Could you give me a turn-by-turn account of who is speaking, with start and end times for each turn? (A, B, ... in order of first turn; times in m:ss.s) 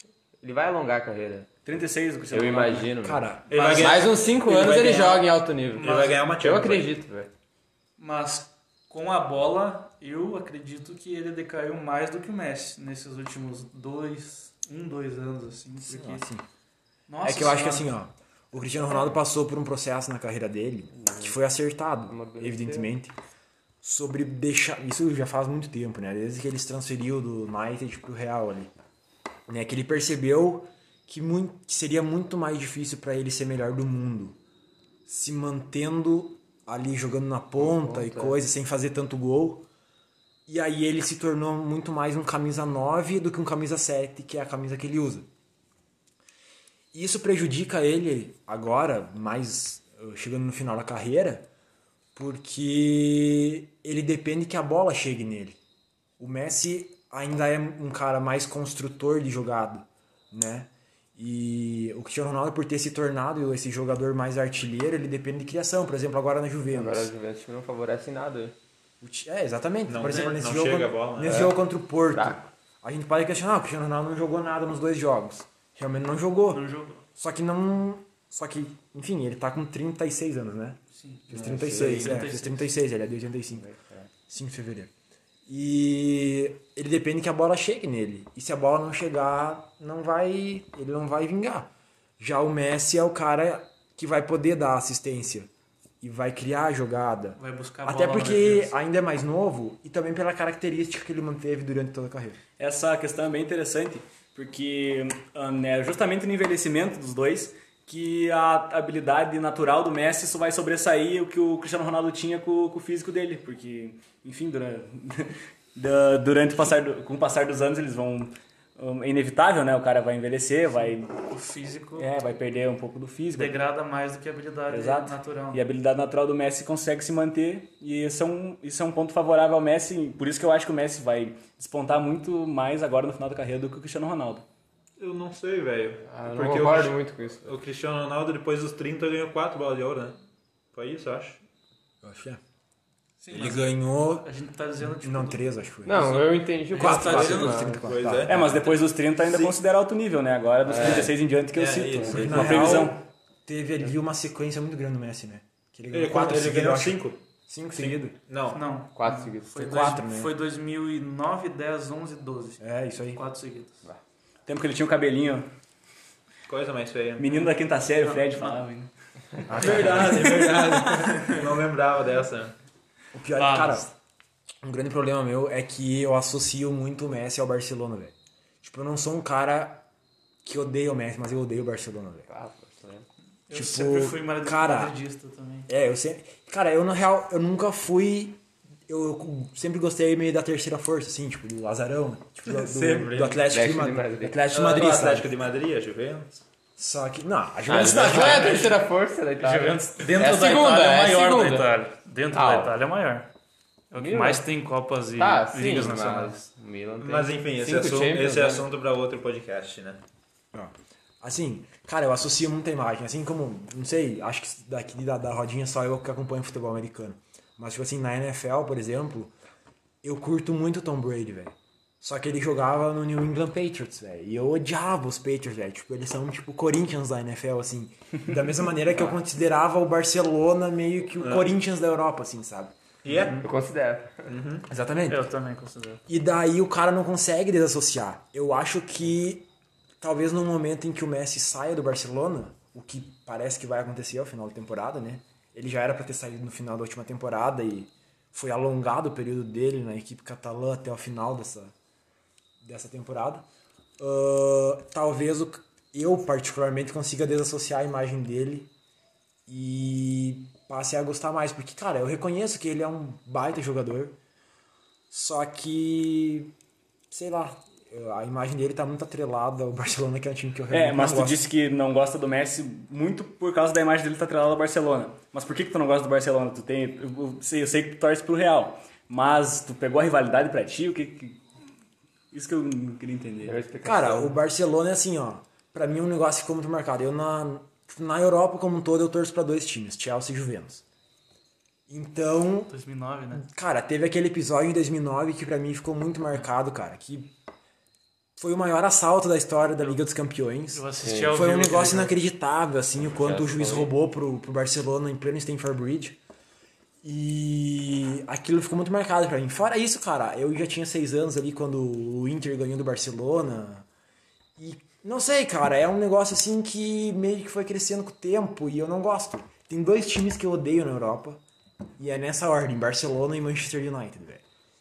0:00.4-0:01.5 A
0:01.6-0:02.9 B
0:02.3-0:07.3 A
0:03.0-0:03.5 C
0:03.5-0:06.9 D
0:05.8-0:06.2 E
0:08.0-0:16.2 E
0:15.8-0:16.4 C
0:17.1-0:17.9 E
0:17.2-0:23.1 C
0:20.9-0:21.4 A
0:22.1-0:22.9 A
0:23.8-0:28.7 C
0:29.5-0:34.4 C
0:35.0-0:39.6 C
0:37.6-0:38.4 A
0:40.5-0:45.3 C
0:46.9-0:51.5 C
0:52.1-0:55.6 C
0:56.2-1:07.1 C
1:06.7-1:08.5 A
1:09.0-1:20.8 C
1:09.9-1:11.5 D
1:10.0-1:10.4 E
1:11.2-1:11.6 A
1:12.1-1:12.4 A
1:16.5-1:17.0 E
1:20.9-1:22.7 E
1:21.3-1:23.7 C
1:21.3-1:22.2 A
1:23.6-1:24.1 A
1:24.3-1:24.9 C
1:25.5-1:31.7 C
1:32.2-1:35.5 C
1:36.0-1:42.4 C
1:37.4-1:38.7 E
1:42.6-2:01.1 B
2:01.3-2:02.1 E
2:02.0-2:03.6 B
2:03.3-2:05.6 E
2:04.7-2:14.4 B
2:15.0-2:20.2 D
2:16.1-2:17.5 A
2:20.7-2:21.4 D
2:22.0-2:22.4 C
2:23.2-2:23.7 E
2:23.3-2:24.3 C
2:24.2-2:25.4 E
2:24.8-2:28.5 C
2:25.8-2:27.9 A
2:26.0-2:27.8 E
2:27.8-2:28.6 D
2:28.3-2:33.0 B
2:30.6-2:31.1 A
2:30.8-2:32.9 D
2:32.0-2:38.2 C
2:35.9-2:37.2 D
2:37.8-2:38.6 D
2:38.5-2:42.6 E
2:38.9-2:39.5 A
2:39.5-2:40.3 C
2:42.6-2:43.2 C
2:43.1-2:43.8 E
2:44.5-2:45.5 B
2:46.5-2:47.3 D
2:47.2-2:48.9 B
2:48.0-2:48.7 E
2:49.5-2:51.2 C
2:49.5-2:52.5 D
2:49.6-2:50.2 E
2:49.7-2:50.3 B
2:53.1-2:53.9 C
2:53.3-2:53.9 E
2:54.6-2:59.8 C
3:00.4-3:02.3 C
3:02.3-3:03.1 A
3:03.5-3:05.7 E
3:03.5-3:04.9 C
3:05.7-3:15.3 C
3:12.5-3:13.4 D
3:13.5-3:14.4 A
3:14.5-3:16.4 D
3:16.8-3:18.7 C
3:17.7-3:21.7 A
3:18.0-3:18.8 E
3:19.4-3:23.3 E
3:22.3-3:22.7 A
3:23.9-3:26.5 E
3:24.0-3:24.4 A
3:25.2-3:28.6 A
3:27.0-3:30.0 D
3:30.5-3:39.3 C
3:40.0-3:52.7 C
3:51.2-3:51.5 D
3:53.0-3:53.4 D
3:53.4-3:54.3 A
3:54.3-3:54.7 D
3:54.7-3:55.3 C
3:55.1-3:56.0 E
3:56.1-3:59.5 C
4:00.0-4:11.7 C
4:12.6-4:13.4 C
4:14.0-4:18.7 C
4:19.5-4:24.1 C
4:25.1-4:26.5 C
4:27.1-4:31.4 C
4:30.7-4:41.4 B
4:42.3-4:43.5 B
4:43.4-4:44.4 A
4:43.8-4:50.8 C
4:51.9-4:52.7 C
4:52.7-4:53.4 E
4:53.3-4:57.3 C
4:58.4-5:06.2 C
5:00.7-5:02.2 E
5:01.0-5:01.3 A
5:03.1-5:03.9 A
5:07.0-5:13.8 C
5:14.6-5:21.4 C
5:22.0-5:24.4 C